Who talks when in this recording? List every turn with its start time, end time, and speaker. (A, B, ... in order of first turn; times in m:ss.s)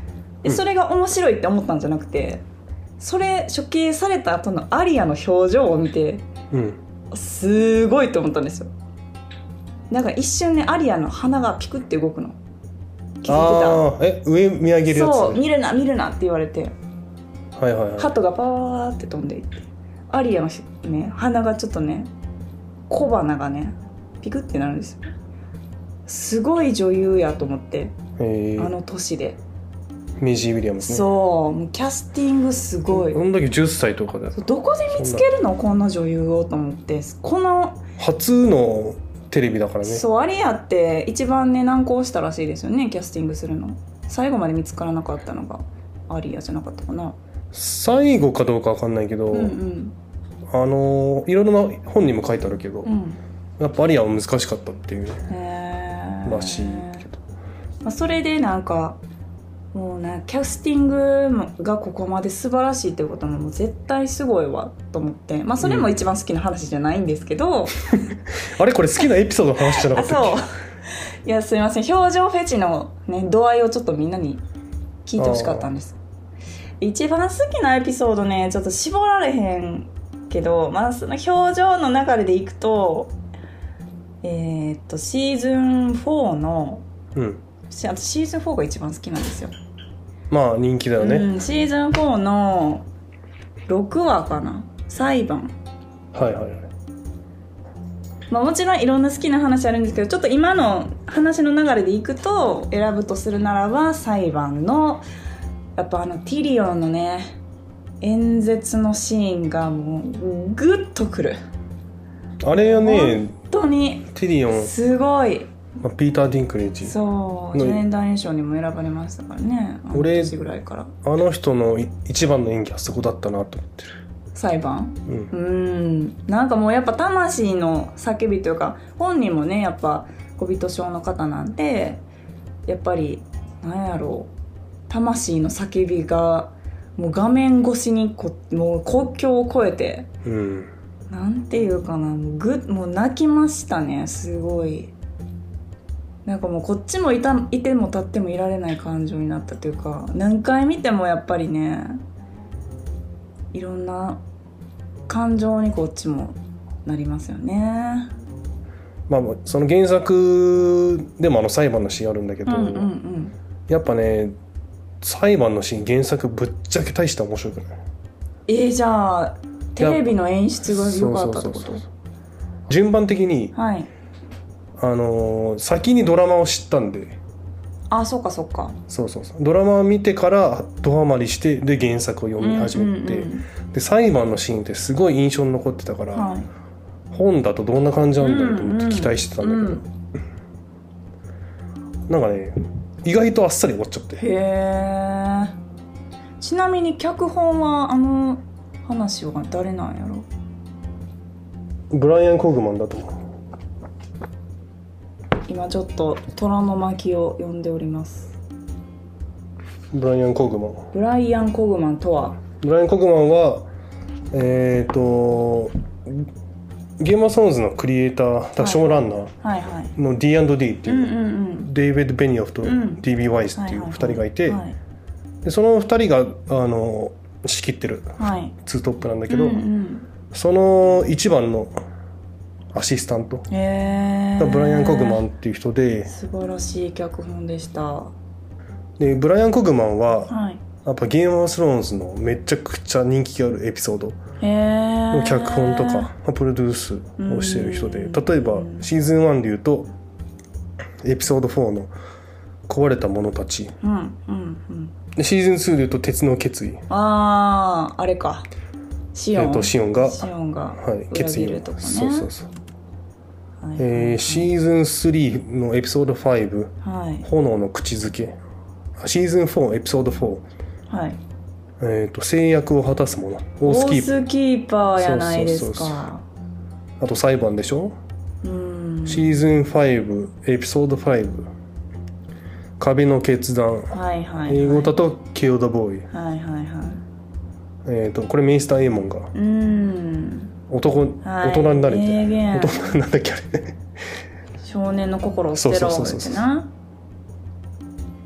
0:00.4-0:02.4 A
0:03.0-0:06.3 A
0:06.5-0:06.8 B
0:07.1-0:08.7 A
0:09.9-0:12.4 A
0:13.2-0:13.9 A
0:13.3-0:15.4 B
0:14.9-0:16.7 A
0:17.6-0:18.1 B
0:18.0-0:22.1 A
0:22.9-0:25.1 A
0:26.1-0:28.0 A
0:28.2-0:28.7 B
0:28.6-0:29.4 A
0:30.2-0:31.0 B
0:30.8-0:33.2 A
0:32.9-0:35.2 B
0:34.4-0:37.8 A
0:38.0-0:40.0 B
0:39.8-0:47.2 A
0:47.5-0:49.6 B
0:49.3-0:49.9 A
0:50.5-0:52.9 B
0:52.8-0:53.2 A
0:53.6-0:55.2 B
0:55.3-0:57.0 A
0:56.2-0:57.2 B
0:57.8-0:59.0 A
0:59.7-1:07.8 A
1:05.6-1:05.9 B
1:08.4-1:10.4 B
1:09.6-1:10.5 A
1:11.2-1:14.4 A
1:15.0-1:16.0 A
1:15.2-1:15.7 B
1:16.8-1:23.2 A
1:24.2-1:26.8 A
1:27.1-1:27.4 B
1:27.7-1:29.5 A
1:30.3-1:31.3 B
1:31.0-1:32.9 A
1:33.7-1:35.5 A
1:36.1-1:36.7 B
1:38.3-1:45.0 A
1:45.8-1:47.4 A
1:48.0-1:51.4 A
1:52.4-1:53.3 B
1:52.5-1:55.5 A
1:54.1-1:54.7 B
1:55.8-1:57.0 B
1:56.8-2:00.9 A
1:57.5-1:57.8 B
1:59.9-2:00.4 B
2:01.0-2:04.0 B
2:04.4-2:12.0 A
2:12.6-2:14.3 A
2:14.9-2:20.1 A
2:20.2-2:20.7 B
2:21.1-2:24.9 A
2:26.2-2:32.0 A
2:33.5-2:34.2 A
2:35.1-2:38.1 A
2:39.1-2:42.9 B
2:42.4-2:43.4 A
2:43.7-2:44.4 B
2:45.0-2:47.8 B
2:48.5-2:51.8 A
2:49.8-2:51.9 B
2:52.7-2:53.5 B
2:53.5-2:53.9 A
2:54.8-2:57.2 B
2:57.9-2:58.8 A
2:58.9-3:06.3 B
3:02.4-3:03.5 A
3:06.1-3:06.5 A
3:07.1-3:09.8 B
3:08.2-3:09.8 A
3:12.1-3:14.2 B
3:14.2-3:15.5 A
3:16.4-3:20.2 A
3:21.9-3:23.1 B
3:25.5-3:28.3 A
3:29.9-3:30.9 B
3:30.9-3:32.4 A
3:32.6-3:33.6 B
3:34.3-3:36.3 B
3:37.0-3:39.3 B
3:38.6-3:39.9 A
3:40.0-3:44.6 B
3:40.9-3:41.7 A
3:42.6-3:43.0 A
3:43.5-3:44.8 A
3:45.4-3:49.6 B
3:48.2-3:48.5 A
3:49.3-3:50.1 A
3:50.3-3:51.7 B
3:52.7-3:53.5 B
3:53.5-3:55.2 A
3:54.4-3:56.1 B
3:56.1-3:58.1 A
3:59.0-4:00.3 B
4:00.3-4:00.6 A
4:00.8-4:04.2 B
4:04.4-4:06.1 A
4:05.1-4:09.9 B
4:07.2-4:08.9 A
4:11.0-4:11.9 B
4:12.7-4:13.7 B
4:13.8-4:14.9 A
4:15.2-4:16.8 B
4:16.9-4:18.5 A
4:19.1-4:22.3 A
4:19.3-4:20.3 B
4:20.8-4:22.5 B
4:23.6-4:24.5 A
4:23.8-4:28.4 B
4:26.8-4:27.2 A
4:29.0-4:30.4 B
4:30.9-4:31.2 A
4:31.8-4:34.1 B
4:33.6-4:36.2 A
4:35.0-4:36.0 B
4:37.0-4:38.0 B
4:38.4-4:39.4 A
4:39.1-4:41.5 B
4:42.8-4:46.1 B
4:43.9-4:44.9 A
4:46.1-4:47.0 A
4:47.8-4:49.3 B
4:49.3-4:50.5 A
4:50.7-4:53.8 B
4:51.2-4:52.9 A
4:54.6-4:56.7 A
4:55.5-4:56.4 B